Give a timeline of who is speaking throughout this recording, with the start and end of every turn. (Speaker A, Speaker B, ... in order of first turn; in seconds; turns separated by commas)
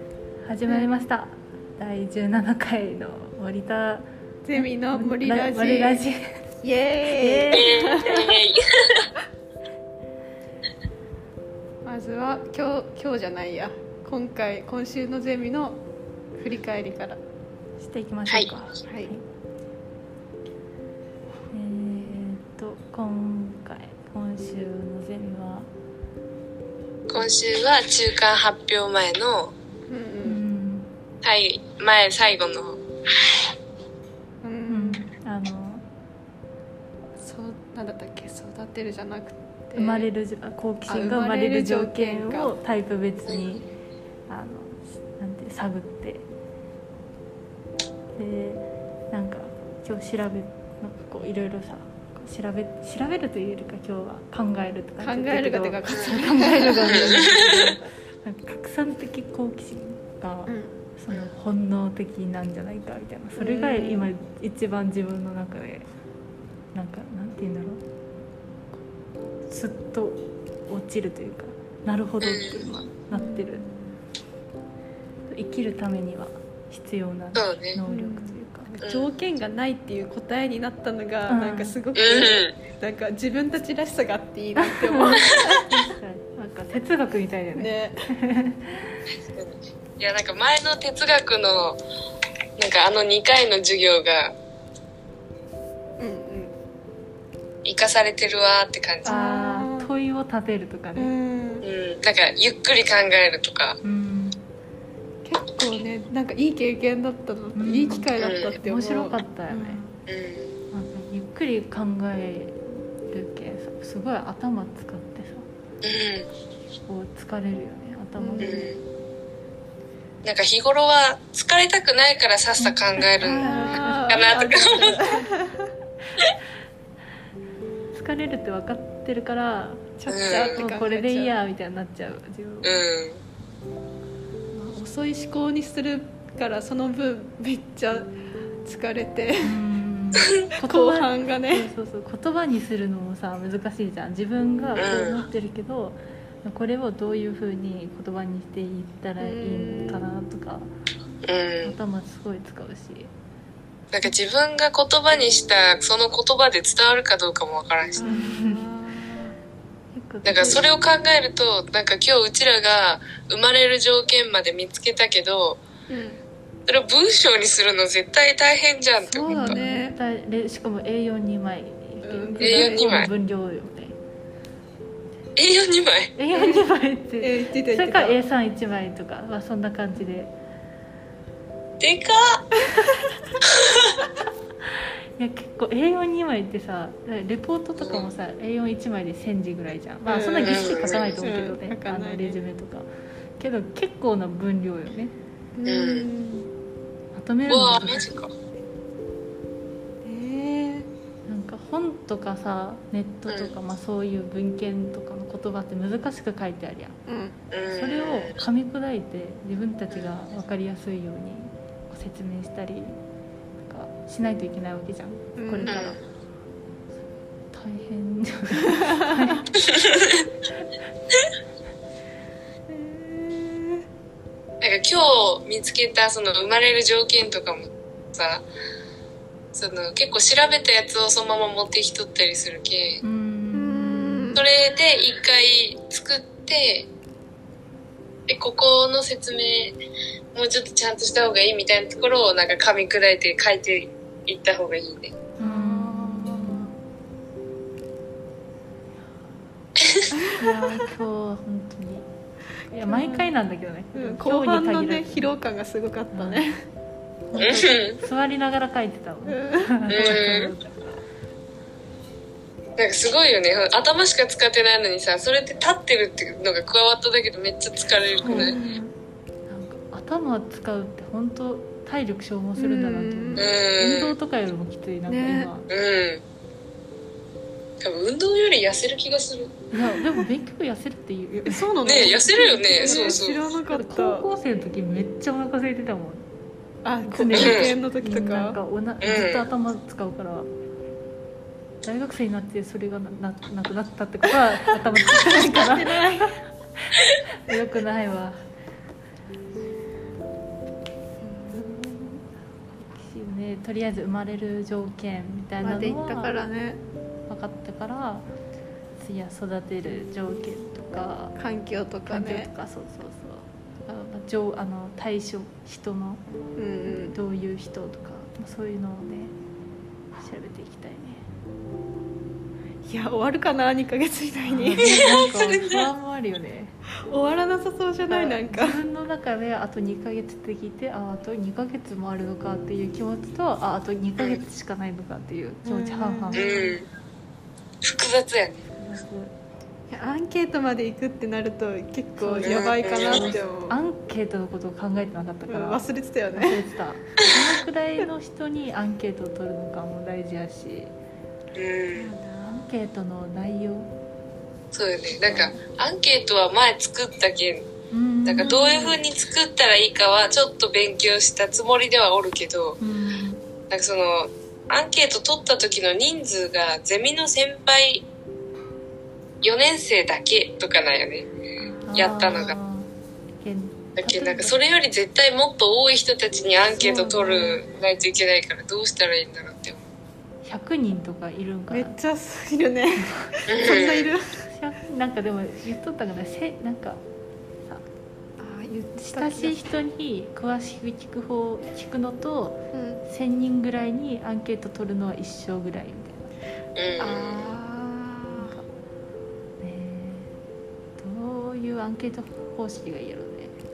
Speaker A: 0.4-6.5, Speaker B: 4.4-6.0, Speaker B: 6.6-8.3, Speaker A: 7.0-8.0, Speaker C: 7.5-9.1, Speaker B: 11.8-15.8, Speaker B: 16.4-17.2, Speaker A: 17.8-19.2, Speaker B: 18.9-19.1, Speaker A: 21.5-25.7, Speaker C: 27.1-29.5, Speaker B: 29.9-30.4, Speaker A: 30.2-30.9, Speaker C: 31.2-32.8, Speaker B: 34.4-35.1, Speaker A: 34.7-35.8, Speaker B: 37.2-40.1, Speaker A: 39.7-43.6, Speaker B: 40.9-42.5, Speaker C: 43.2-43.6, Speaker A: 44.3-46.2, Speaker A: 48.1-65.9, Speaker B: 55.0-57.6, Speaker C: 56.9-57.5, Speaker B: 60.5-60.8, Speaker B: 63.4-64.1, Speaker A: 66.7-67.8, Speaker A: 69.5-73.6, Speaker C: 72.2-72.6, Speaker B: 73.1-74.0, Speaker A: 75.3-78.7, Speaker C: 77.3-77.8, Speaker B: 77.9-85.8, Speaker C: 78.8-79.1, Speaker A: 81.3-81.8, Speaker C: 81.9-82.5, Speaker A: 84.6-89.0, Speaker B: 87.5-88.0, Speaker C: 89.3-91.8, Speaker C: 92.6-94.3, Speaker B: 96.0-96.5, Speaker C: 97.6-99.2, Speaker B: 99.0-99.9, Speaker A: 99.0-101.1, Speaker B: 101.0-101.7, Speaker C: 101.6-103.8, Speaker A: 103.8-104.4, Speaker B: 105.2-110.0, Speaker A: 107.5-108.1, Speaker C: 108.2-108.6, Speaker A: 108.6-109.8, Speaker C: 110.1-110.5, Speaker A: 110.7-115.5, Speaker C: 115.8-116.3, Speaker A: 116.8-118.7, Speaker B: 118.2-118.6, Speaker C: 118.4-118.8, Speaker C: 120.2-123.5, Speaker A: 122.6-124.2, Speaker B: 123.2-125.7, Speaker C: 124.1-125.2, Speaker A: 127.9-129.9, Speaker B: 130.0-131.3, Speaker C: 130.1-130.6, Speaker A: 130.5-132.8, Speaker C: 132.6-133.2, Speaker B: 134.5-138.1, Speaker B: 138.6-139.5, Speaker A: 139.4-150.7, Speaker B: 140.7-141.7, Speaker C: 144.8-145.2, Speaker B: 149.2-150.1, Speaker C: 151.2-151.8, Speaker A: 151.6-153.1, Speaker C: 153.9-158.0, Speaker B: 157.9-159.3, Speaker A: 158.0-158.7, Speaker A: 159.9-160.6, Speaker C: 160.2-165.6, Speaker B: 165.9-166.2, Speaker C: 166.7-169.6, Speaker B: 169.0-169.9, Speaker A: 169.3-174.0, Speaker B: 172.0-173.0, Speaker C: 172.4-173.1, Speaker C: 175.3-176.1, Speaker A: 176.2-180.3, Speaker B: 176.3-176.6, Speaker B: 177.2-178.2, Speaker C: 181.8-182.5, Speaker C: 183.5-183.9, Speaker A: 185.2-195.2, Speaker C: 187.8-188.1, Speaker B: 190.0-192.4, Speaker C: 190.4-191.1, Speaker B: 195.5-196.5, Speaker C: 195.6-196.1, Speaker A: 197.1-198.1, Speaker C: 197.5-198.3, Speaker B: 200.0-200.9, Speaker A: 201.3-206.9, Speaker C: 203.3-203.6, Speaker B: 207.1-207.3, Speaker C: 207.5-208.4, Speaker A: 207.8-213.0, Speaker C: 209.9-210.3, Speaker A: 213.6-216.0, Speaker B: 215.4-215.9, Speaker C: 215.7-216.0, Speaker A: 217.5-219.5, Speaker B: 218.7-219.1, Speaker C: 219.7-220.2, Speaker B: 222.7-223.8, Speaker C: 224.6-228.4, Speaker C: 229.5-233.0, Speaker A: 233.0-234.4, Speaker B: 233.5-234.4, Speaker C: 234.3-236.9, Speaker C: 238.3-239.8, Speaker C: 240.3-245.2, Speaker A: 245.4-246.7, Speaker B: 245.4-246.7, Speaker C: 249.8-250.1, Speaker B: 250.2-250.5, Speaker A: 250.3-252.1, Speaker A: 252.7-255.3, Speaker B: 252.9-253.3, Speaker B: 253.9-256.6, Speaker A: 256.1-256.4, Speaker A: 257.3-261.0, Speaker C: 257.4-258.0, Speaker B: 259.3-259.7, Speaker C: 259.9-260.5, Speaker C: 262.8-268.6, Speaker A: 268.2-268.8, Speaker B: 268.2-268.9, Speaker A: 269.5-275.7, Speaker B: 272.6-273.5, Speaker C: 273.4-274.1, Speaker B: 275.1-275.5, Speaker C: 275.7-276.2, Speaker C: 277.8-279.5, Speaker A: 279.7-286.2, Speaker B: 281.4-284.2, Speaker C: 281.8-283.4, Speaker B: 286.8-288.6, Speaker A: 287.0-290.5, Speaker C: 287.3-287.7, Speaker C: 289.0-289.5, Speaker A: 291.8-296.4, Speaker B: 295.1-296.3, Speaker A: 297.4-298.4, Speaker B: 301.2-301.7, Speaker A: 301.5-306.3, Speaker B: 305.6-306.8, Speaker A: 307.3-308.3, Speaker A: 309.0-311.3, Speaker B: 311.4-312.5, Speaker A: 312.1-316.2, Speaker B: 316.6-317.1, Speaker A: 316.9-319.3, Speaker A: 320.1-321.2, Speaker B: 322.9-325.5, Speaker A: 324.4-326.8, Speaker C: 325.2-325.8, Speaker B: 327.1-328.8, Speaker A: 328.1-336.8, Speaker B: 335.6-336.5, Speaker C: 336.3-336.9, Speaker C: 337.8-338.6, Speaker A: 338.8-339.3, Speaker B: 339.9-343.7, Speaker A: 342.2-345.8, Speaker C: 342.4-343.4, Speaker B: 345.5-346.6, Speaker A: 346.3-350.9, Speaker C: 351.5-352.1, Speaker B: 351.9-352.7, Speaker A: 352.4-353.9, Speaker C: 354.7-357.6, Speaker A: 355.2-355.6, Speaker A: 357.9-359.0, Speaker C: 358.2-362.8, Speaker A: 362.8-363.4, Speaker C: 363.7-368.0, Speaker C: 369.4-371.3, Speaker A: 371.8-374.6, Speaker C: 371.9-372.6, Speaker C: 373.9-379.8, Speaker A: 376.8-377.6, Speaker A: 380.4-382.0, Speaker B: 381.7-384.3, Speaker A: 383.0-383.8, Speaker C: 383.5-384.1, Speaker A: 384.4-387.0, Speaker B: 388.4-389.7, Speaker A: 389.0-396.3, Speaker B: 392.7-393.0, Speaker C: 396.7-397.5, Speaker B: 397.0-398.6, Speaker A: 398.3-398.7, Speaker A: 399.6-400.3, Speaker A: 401.0-403.5